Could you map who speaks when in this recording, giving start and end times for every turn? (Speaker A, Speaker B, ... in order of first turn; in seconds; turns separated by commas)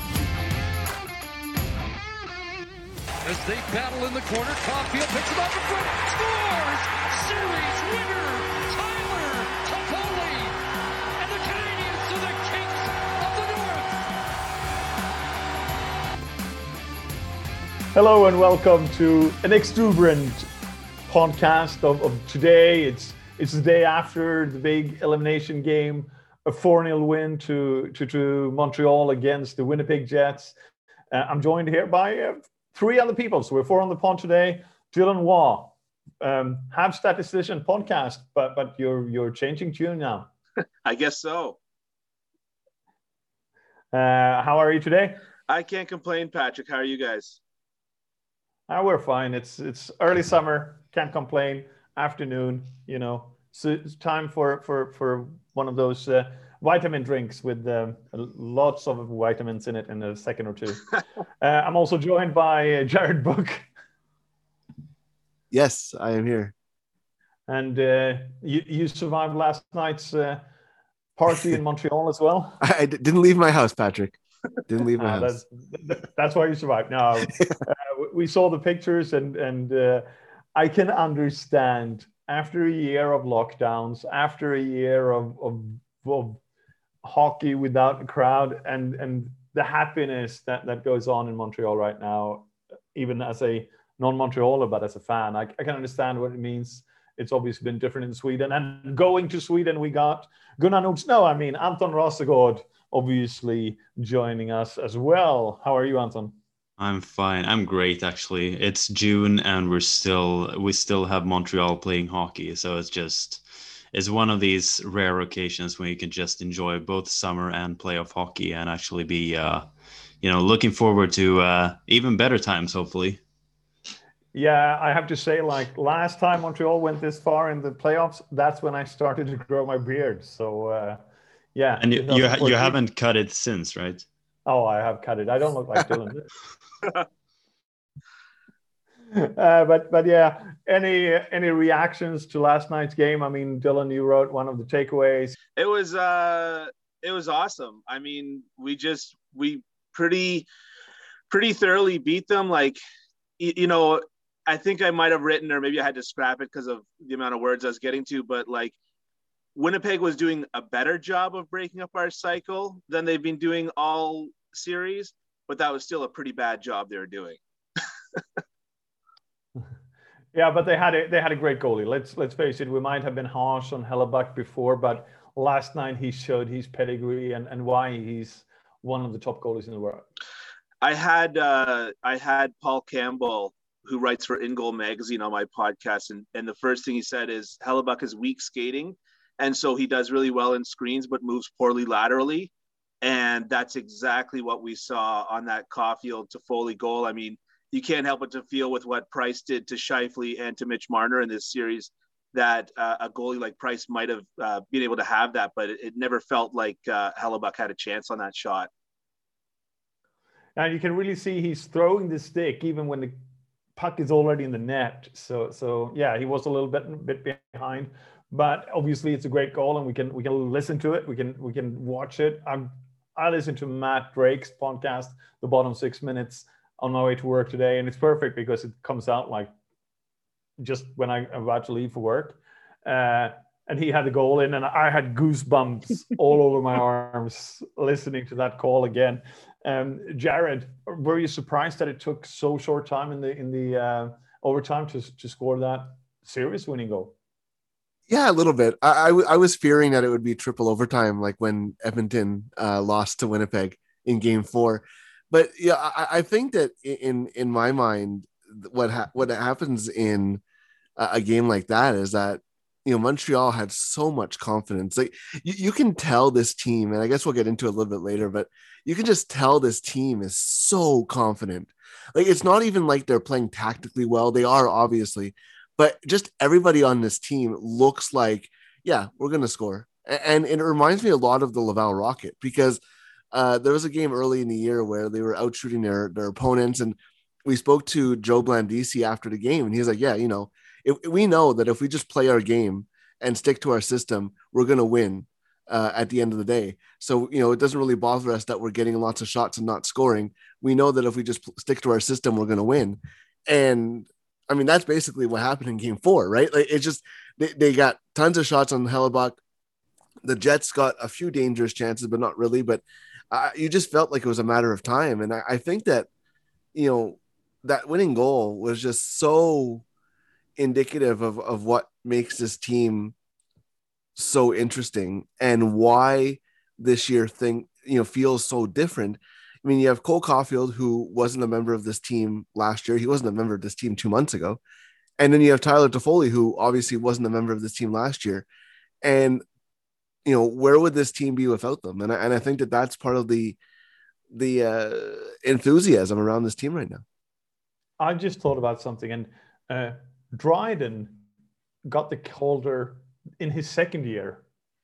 Speaker A: 3.2-10.5, Speaker A: 11.2-14.0, Speaker B: 17.9-20.5, Speaker B: 21.1-30.5, Speaker B: 31.1-40.3, Speaker C: 40.8-41.6, Speaker B: 43.9-45.2, Speaker C: 45.5-47.4, Speaker B: 48.7-60.9, Speaker B: 61.4-63.7, Speaker D: 65.5-66.5, Speaker B: 67.5-70.4, Speaker B: 71.2-72.6, Speaker D: 72.6-75.3, Speaker B: 75.0-86.4, Speaker B: 87.0-106.3, Speaker E: 106.8-119.6, Speaker E: 120.2-123.2, Speaker B: 124.3-131.0, Speaker B: 131.5-132.8, Speaker E: 131.8-134.0, Speaker B: 134.4-136.3, Speaker B: 139.1-145.3, Speaker C: 145.6-150.5, Speaker C: 151.3-152.8, Speaker C: 153.4-158.7, Speaker C: 159.5-167.4, Speaker B: 170.3-180.1, Speaker C: 180.8-192.5, Speaker C: 193.0-208.7, Speaker B: 210.6-213.2, Speaker B: 213.8-229.5, Speaker B: 230.6-247.1, Speaker D: 248.1-260.4, Speaker D: 261.0-282.8, Speaker D: 283.3-309.4, Speaker D: 310.2-316.1, Speaker D: 316.7-319.8, Speaker D: 320.6-323.1, Speaker D: 324.1-334.6, Speaker D: 335.2-338.5, Speaker D: 339.0-339.4, Speaker D: 340.2-343.6, Speaker D: 344.3-347.0, Speaker B: 348.0-351.2, Speaker B: 351.9-354.4